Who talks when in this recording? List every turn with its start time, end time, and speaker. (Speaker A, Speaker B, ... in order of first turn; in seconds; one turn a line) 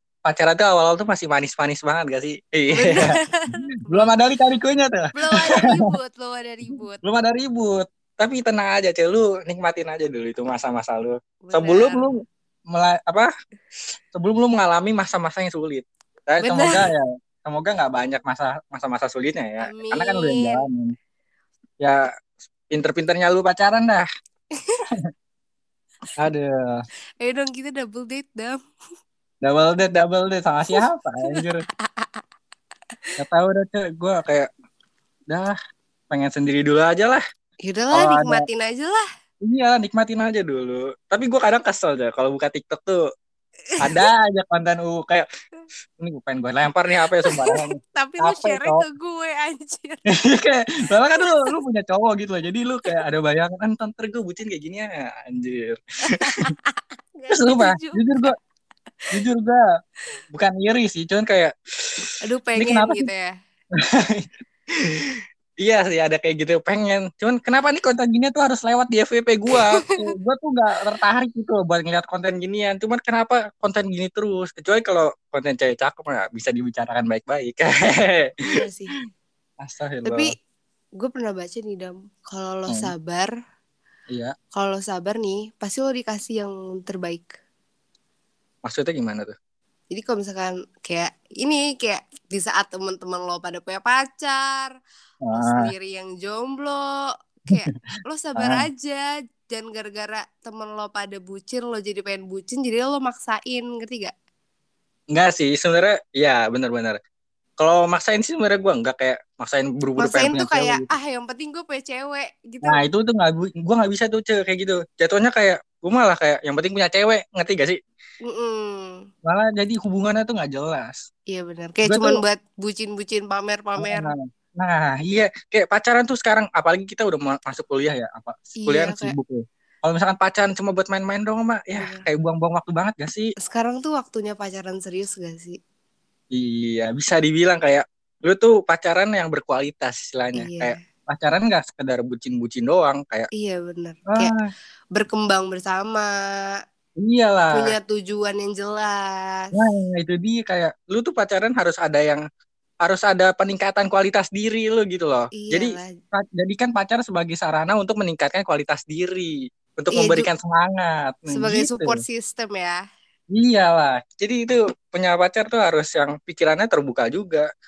Speaker A: 0.2-5.8
Speaker B: 2.7-4.1
Speaker B: 5.1-7.0
Speaker A: 6.7-12.2
Speaker B: 11.5-12.1
Speaker A: 12.7-13.3
Speaker A: 14.1-20.9
Speaker B: 16.4-16.8
Speaker B: 19.6-20.6
Speaker A: 22.7-24.0
Speaker B: 24.6-24.8
Speaker A: 26.2-26.8
Speaker B: 27.2-28.6
Speaker A: 29.4-31.6
Speaker B: 30.8-32.2
Speaker A: 33.2-34.5
Speaker A: 35.3-35.5
Speaker A: 36.1-37.2
Speaker B: 37.6-39.0
Speaker A: 37.9-38.5
Speaker A: 39.4-43.0
Speaker B: 43.8-44.1
Speaker A: 43.8-45.2
Speaker A: 46.0-48.8
Speaker B: 47.2-50.0
Speaker A: 50.1-56.5
Speaker B: 51.2-51.5
Speaker B: 56.1-58.3
Speaker A: 57.3-58.3
Speaker A: 59.1-59.6
Speaker A: 60.3-63.1
Speaker B: 62.2-63.3
Speaker A: 63.8-78.3
Speaker B: 69.5-70.1
Speaker B: 78.4-78.9
Speaker A: 79.6-80.3
Speaker B: 80.0-80.3
Speaker B: 81.0-83.3
Speaker B: 84.5-87.4
Speaker A: 88.6-89.3
Speaker B: 89.9-94.7
Speaker A: 95.2-95.7
Speaker B: 95.3-104.1
Speaker A: 98.3-98.6
Speaker A: 105.1-107.0
Speaker A: 107.6-110.9
Speaker B: 110.0-112.8
Speaker A: 112.6-117.8
Speaker B: 118.2-119.1
Speaker A: 119.2-121.0
Speaker B: 121.3-124.1
Speaker A: 121.8-122.2
Speaker A: 123.8-133.3
Speaker B: 128.6-129.2
Speaker B: 131.8-132.1
Speaker B: 133.5-135.6
Speaker A: 136.3-143.3
Speaker B: 140.3-140.8
Speaker B: 143.4-144.3
Speaker A: 144.1-144.4
Speaker B: 144.9-146.5
Speaker A: 147.0-147.7
Speaker B: 147.5-149.5
Speaker A: 149.5-152.2
Speaker A: 152.8-162.0
Speaker B: 155.3-155.9
Speaker B: 159.9-160.3
Speaker B: 161.3-162.8
Speaker A: 163.3-167.4